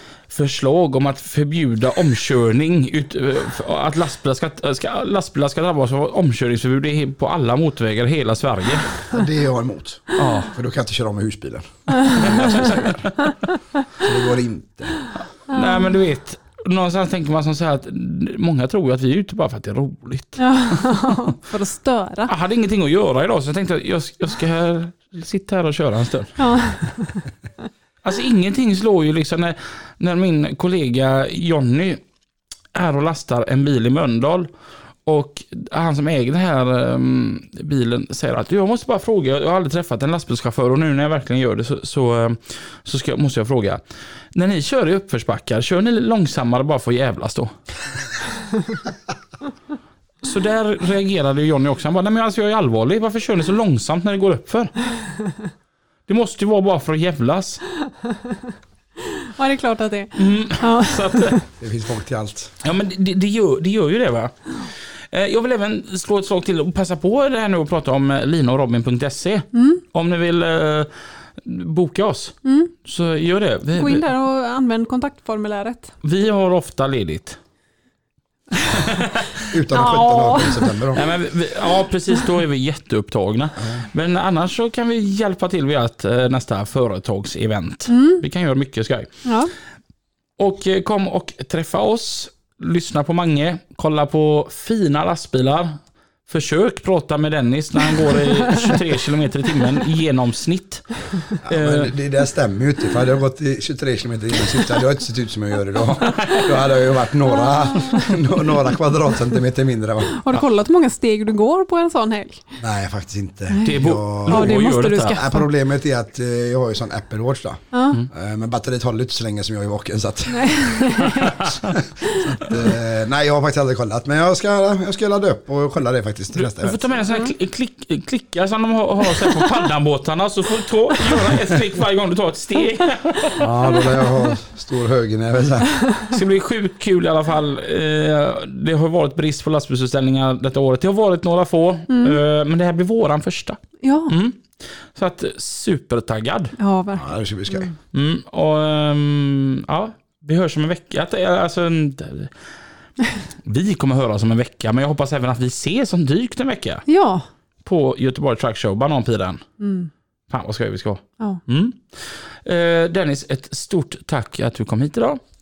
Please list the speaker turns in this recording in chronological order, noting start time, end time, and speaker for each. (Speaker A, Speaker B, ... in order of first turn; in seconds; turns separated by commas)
Speaker A: 0.3-9.1, Speaker B: 9.1-13.1, Speaker A: 10.2-10.5, Speaker A: 12.2-13.3, Speaker B: 14.0-15.0, Speaker A: 15.5-21.3, Speaker C: 15.5-15.9, Speaker C: 20.4-22.3, Speaker A: 22.3-26.9, Speaker C: 26.4-27.3, Speaker A: 28.0-32.0, Speaker A: 32.7-34.5, Speaker A: 35.1-43.8, Speaker A: 44.3-47.5, Speaker A: 50.2-54.8, Speaker A: 56.1-57.6, Speaker C: 59.2-61.5, Speaker A: 60.2-61.4, Speaker B: 61.6-62.5, Speaker A: 62.6-74.0, Speaker C: 69.5-69.8, Speaker C: 72.5-72.7, Speaker C: 73.7-75.9, Speaker A: 76.0-77.4, Speaker A: 78.8-79.4, Speaker B: 79.5-81.0, Speaker C: 79.7-80.7, Speaker A: 80.9-89.3, Speaker B: 83.6-83.9, Speaker C: 87.9-88.2, Speaker C: 89.2-89.5, Speaker A: 90.4-101.9, Speaker B: 101.4-110.2, Speaker C: 107.5-108.1, Speaker C: 110.1-112.6, Speaker B: 112.6-126.9, Speaker C: 113.5-115.5, Speaker A: 113.7-115.2, Speaker C: 117.7-118.0, Speaker C: 120.3-121.4, Speaker A: 121.2-121.5, Speaker A: 126.4-133.8, Speaker B: 133.4-135.8, Speaker A: 136.1-146.6, Speaker C: 141.9-142.2, Speaker C: 143.8-144.1, Speaker C: 146.6-147.7, Speaker B: 146.9-147.7, Speaker A: 147.9-152.3, Speaker A: 153.4-156.9, Speaker C: 156.9-157.3, Speaker A: 157.7-159.4, Speaker C: 159.6-159.9, Speaker A: 160.3-165.2